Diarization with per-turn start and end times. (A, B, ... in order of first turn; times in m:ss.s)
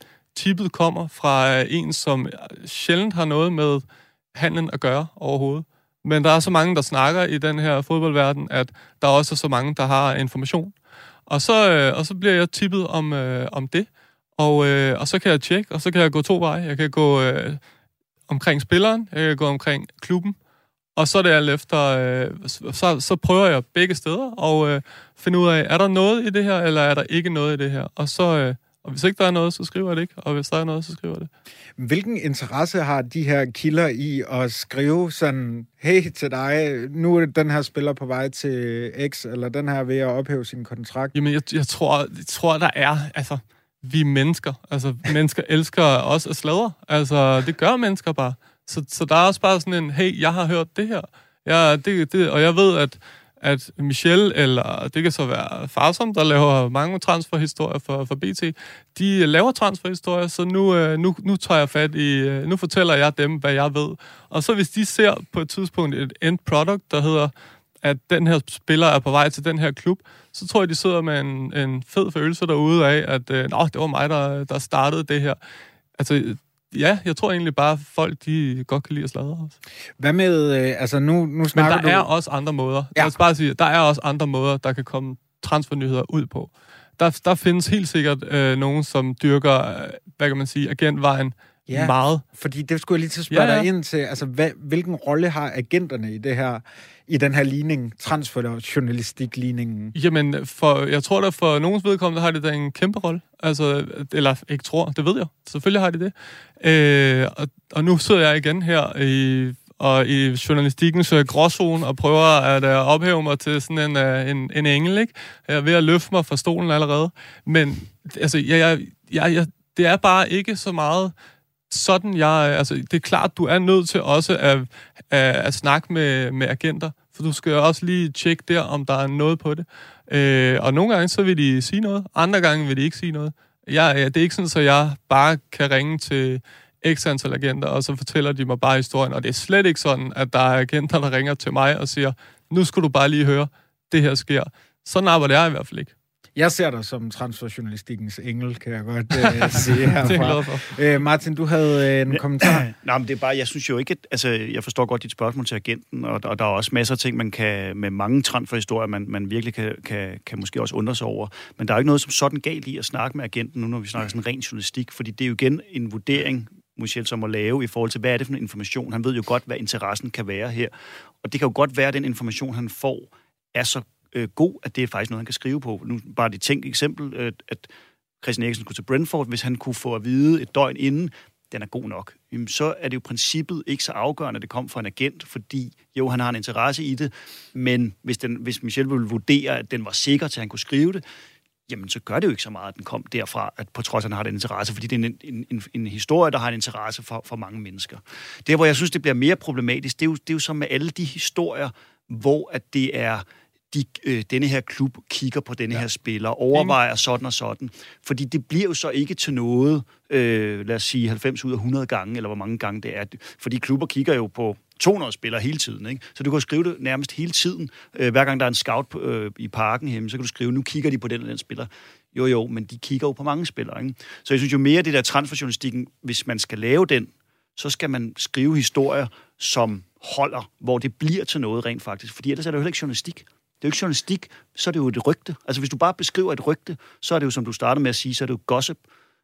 0:00.3-0:10.7 A
0:11.3-0:17.6 A
0:18.3-0:20.4 A
0:21.0-0:31.3 A
0:31.8-0:41.1 B
0:41.1-1:15.4 A
1:16.0-1:19.5 A
1:20.0-1:22.1 B
1:21.5-1:32.2 A
1:31.7-1:39.9 B
1:33.3-1:33.7 A
1:39.9-2:01.1 A
2:01.7-2:25.9 A
2:26.4-2:32.6 B
2:29.4-2:30.7 A
2:32.1-2:50.7 C
2:51.2-2:57.7 C
2:58.2-3:11.0 C
3:11.7-3:58.8 C